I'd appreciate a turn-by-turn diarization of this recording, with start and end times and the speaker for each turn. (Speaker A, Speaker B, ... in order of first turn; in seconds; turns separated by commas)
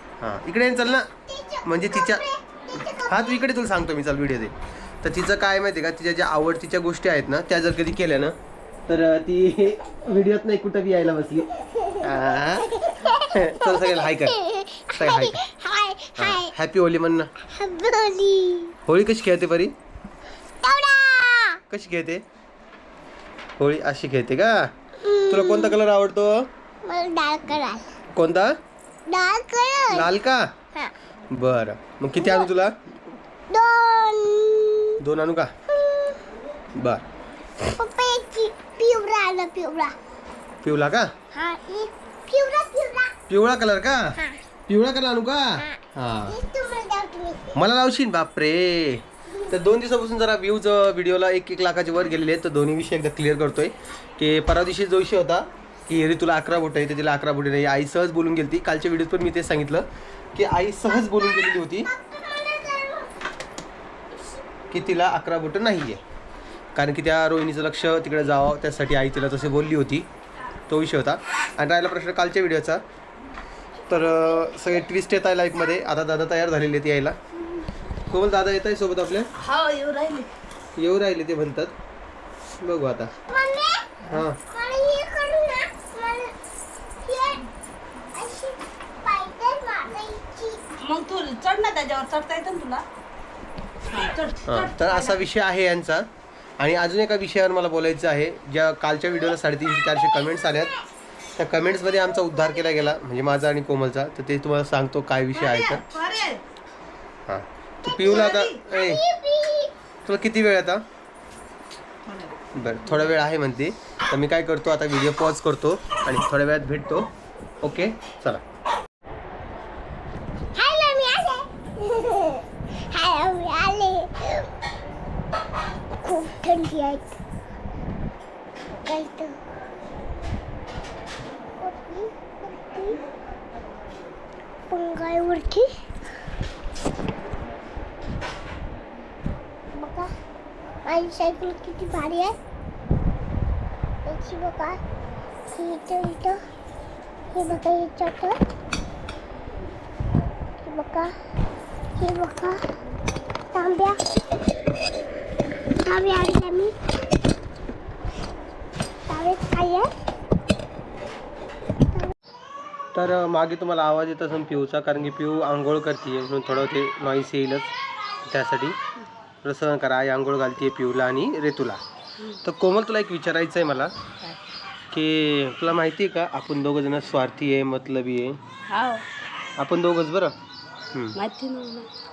Speaker A: 0.2-1.1, Speaker B: 1.2-3.3, Speaker A: 1.6-2.2, Speaker A: 2.9-8.3, Speaker A: 8.9-14.4, Speaker B: 11.7-12.1, Speaker B: 12.8-16.5, Speaker A: 14.9-15.4, Speaker A: 16.2-17.3, Speaker B: 17.4-18.8, Speaker A: 18.9-19.7, Speaker B: 20.6-21.6, Speaker A: 21.7-22.2, Speaker A: 23.6-24.7, Speaker B: 25.0-25.8, Speaker A: 25.3-26.5, Speaker B: 26.8-27.8, Speaker A: 28.1-28.6, Speaker B: 29.1-30.1, Speaker A: 29.9-30.5, Speaker A: 31.3-32.7, Speaker B: 32.2-32.5, Speaker B: 33.5-35.0, Speaker A: 35.0-35.5, Speaker A: 36.8-37.0, Speaker B: 37.7-39.9, Speaker A: 40.6-41.1, Speaker B: 41.3-43.2, Speaker A: 43.3-46.4, Speaker B: 45.6-47.6, Speaker A: 47.5-61.9, Speaker B: 61.9-63.1, Speaker A: 64.7-66.0, Speaker A: 66.7-70.1, Speaker A: 70.7-72.8, Speaker A: 73.9-77.2, Speaker A: 78.1-79.3, Speaker C: 79.4-80.3, Speaker A: 80.8-81.7, Speaker A: 82.6-83.1, Speaker B: 83.3-86.3, Speaker A: 84.1-84.4, Speaker B: 87.0-87.5, Speaker B: 88.1-90.7, Speaker C: 90.8-92.8, Speaker C: 93.9-95.2, Speaker A: 94.5-96.1, Speaker A: 96.6-100.7, Speaker A: 101.4-105.9, Speaker C: 105.5-106.4, Speaker A: 107.3-109.0, Speaker B: 108.0-109.7, Speaker A: 110.0-110.8, Speaker C: 112.0-112.3, Speaker A: 112.5-117.1, Speaker A: 117.6-118.4, Speaker B: 120.5-124.5, Speaker B: 126.0-127.0, Speaker B: 128.7-129.4, Speaker B: 131.6-133.0, Speaker B: 134.7-135.7, Speaker B: 139.7-140.1, Speaker B: 140.8-142.3, Speaker B: 144.1-144.8, Speaker B: 145.5-146.4, Speaker B: 147.3-148.4, Speaker B: 150.6-151.1, Speaker B: 152.0-152.6, Speaker B: 153.5-154.0, Speaker B: 155.8-156.8, Speaker B: 159.1-159.9, Speaker A: 162.9-167.7, Speaker A: 168.2-168.8, Speaker A: 169.4-171.8, Speaker A: 172.4-173.9, Speaker A: 174.9-178.4, Speaker C: 178.7-179.0, Speaker A: 179.6-180.3, Speaker C: 181.2-181.9